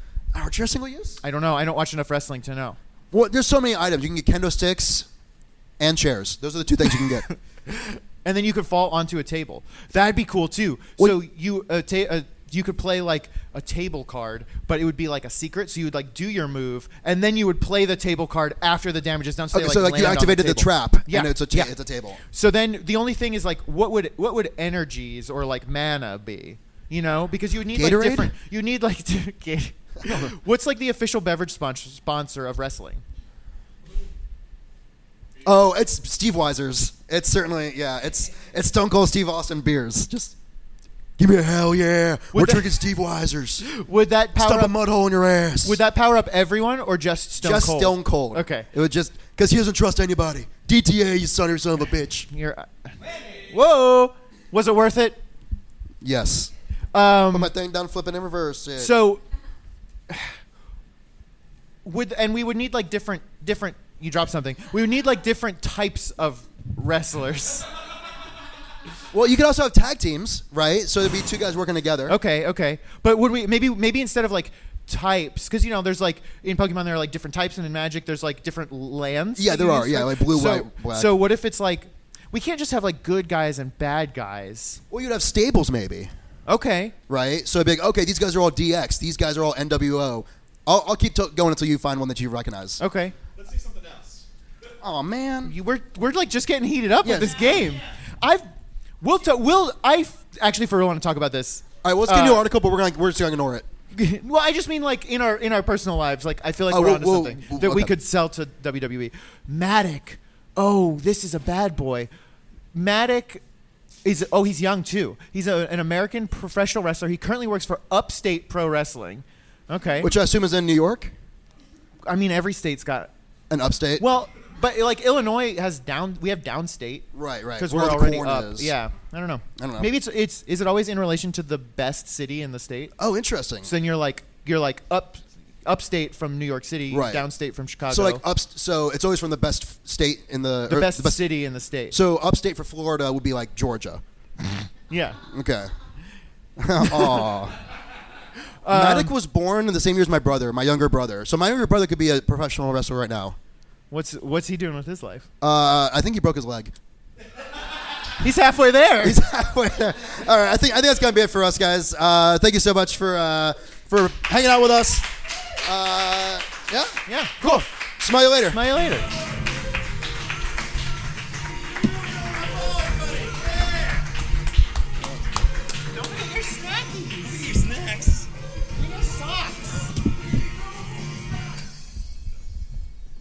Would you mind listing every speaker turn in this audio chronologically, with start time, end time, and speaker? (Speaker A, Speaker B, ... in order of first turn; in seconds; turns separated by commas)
Speaker A: 0.3-1.2, Speaker B: 1.2-2.8, Speaker A: 3.1-5.1, Speaker A: 5.8-7.3, Speaker B: 7.7-21.7, Speaker A: 19.5-22.2, Speaker B: 22.3-33.0, Speaker A: 27.7-28.3, Speaker A: 30.0-30.3, Speaker A: 35.4-40.4, Speaker A: 41.2-43.7, Speaker B: 42.3-42.7, Speaker B: 43.6-44.8, Speaker A: 44.4-45.8, Speaker B: 45.6-48.7, Speaker A: 47.4-52.3, Speaker B: 52.3-55.2, Speaker A: 56.0-56.5, Speaker B: 56.9-57.5, Speaker A: 57.3-58.9, Speaker B: 58.8-59.2, Speaker B: 60.1-60.4, Speaker B: 61.8-67.7, Speaker A: 69.1-72.2, Speaker B: 72.1-84.8, Speaker A: 79.4-81.2, Speaker A: 84.9-86.1, Speaker B: 86.5-87.0, Speaker A: 87.1-92.8, Speaker B: 92.8-93.2, Speaker C: 93.3-94.2, Speaker A: 94.8-95.5, Speaker B: 95.4-98.5, Speaker A: 97.0-97.4, Speaker B: 99.0-102.5, Speaker A: 101.8-103.7, Speaker B: 103.9-112.1, Speaker A: 106.7-108.0, Speaker B: 112.7-113.4, Speaker B: 114.0-120.1, Speaker A: 120.0-121.1, Speaker B: 122.1-123.1, Speaker A: 123.5-124.0, Speaker B: 124.0-127.1, Speaker A: 127.1-128.7, Speaker B: 127.6-132.9, Speaker A: 129.6-129.9, Speaker A: 133.0-133.7, Speaker B: 133.6-138.2, Speaker A: 136.9-137.2, Speaker A: 137.9-141.2, Speaker B: 140.7-141.9, Speaker A: 141.9-144.0, Speaker B: 144.9-145.2, Speaker A: 145.3-145.7, Speaker A: 146.6-147.6, Speaker B: 148.6-149.1, Speaker A: 148.7-153.4, Speaker B: 153.9-155.3, Speaker A: 155.4-156.8, Speaker B: 158.2-159.2, Speaker A: 159.0-165.1, Speaker A: 165.6-168.6, Speaker B: 167.1-167.7, Speaker B: 168.5-169.1, Speaker C: 172.3-174.0, Speaker B: 175.9-177.5, Speaker C: 177.3-178.3, Speaker B: 178.8-179.7